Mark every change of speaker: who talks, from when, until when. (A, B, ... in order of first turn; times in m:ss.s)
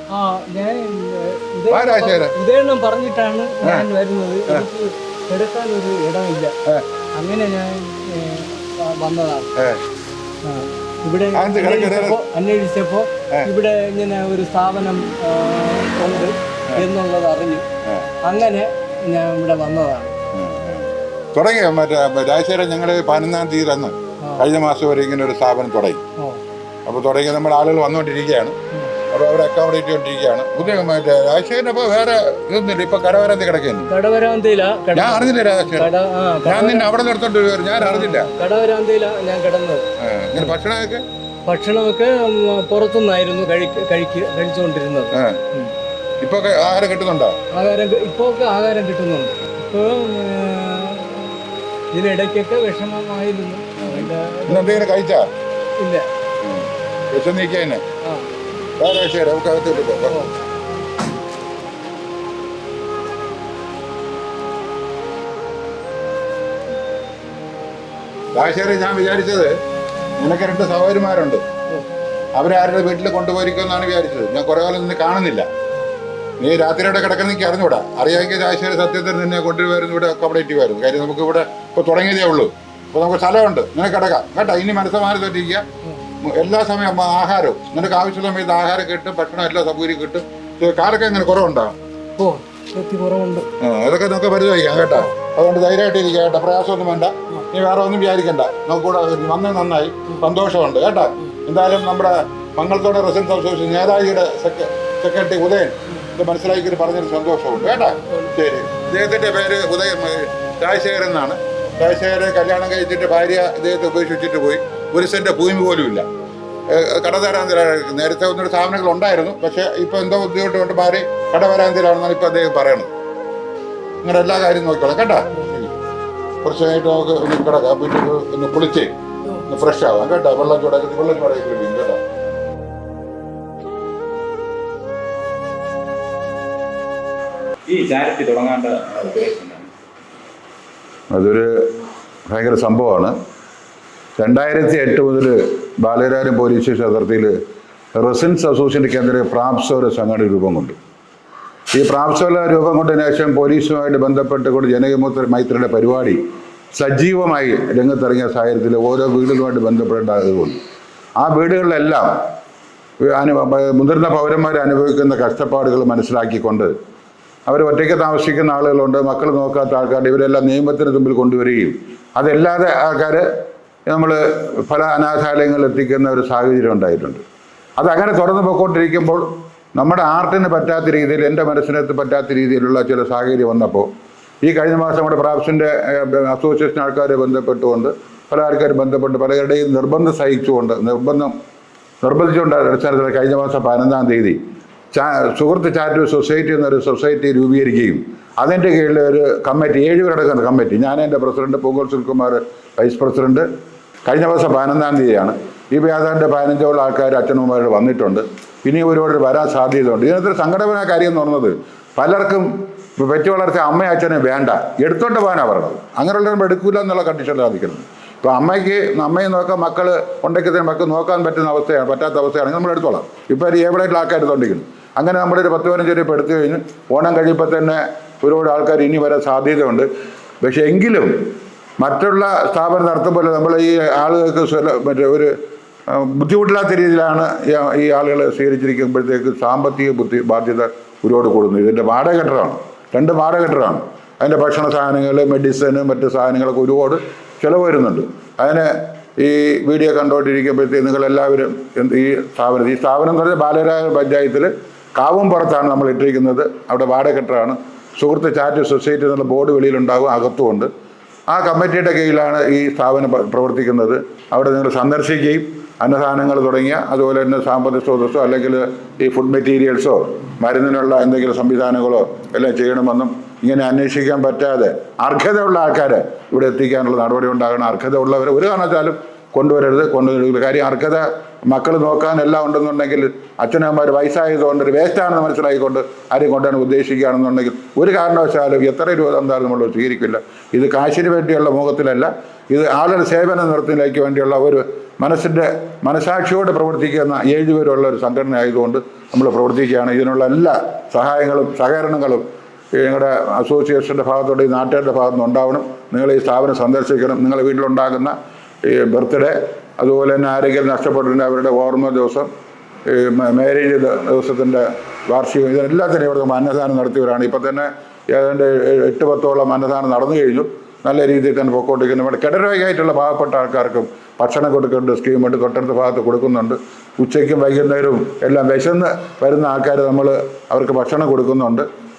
0:00.1-0:06.5 A
0:01.7-0:02.3 B
0:07.2-0:09.5 A
0:09.6-0:09.8 B
0:10.4-0:17.6 A
0:11.3-0:12.2 B
0:18.2-0:20.1 A
0:20.3-0:26.0 B
0:26.8-0:28.6 B
0:29.1-0:33.9 B
0:33.9-0:36.9 A
0:34.9-0:35.9 B
0:36.4-0:38.3 B
0:37.8-0:40.6 A
0:40.0-0:41.0 B
0:41.5-0:45.7 A
0:45.1-0:45.4 B
0:46.2-0:47.4 B
0:47.5-0:51.4 A
0:51.9-0:54.8 A
0:53.8-0:55.3 B
0:55.8-0:56.1 A
0:56.4-0:57.8 B
0:58.8-1:00.3 B
1:08.3-1:09.5 B
1:10.2-1:11.4 B
1:12.3-1:15.5 B
1:16.4-1:25.6 B
1:26.2-1:31.7 B
1:32.2-1:33.5 A
1:33.6-1:56.0 B
1:47.8-1:48.3 A
1:56.7-2:02.9 B
2:04.0-2:05.7 B
2:06.4-2:08.9 B
2:09.4-2:12.0 B
2:17.7-2:19.7 C
2:21.1-2:21.5 B
2:22.3-2:23.1 B
2:24.2-2:27.3 B
2:27.9-2:30.7 B
2:31.7-2:36.2 B
2:36.7-2:40.6 B
2:41.2-2:42.2 B
2:43.0-2:46.7 B
2:47.5-2:53.2 B
2:53.9-2:57.2 B
2:57.8-3:03.9 B
3:04.4-3:11.3 B
3:12.0-3:14.4 B
3:14.9-3:23.4 B
3:24.0-3:49.9 B
3:50.4-3:55.3 B
3:55.9-4:20.7 B
4:21.3-5:02.2 B
5:02.8-5:12.3 B
5:12.8-5:31.6 B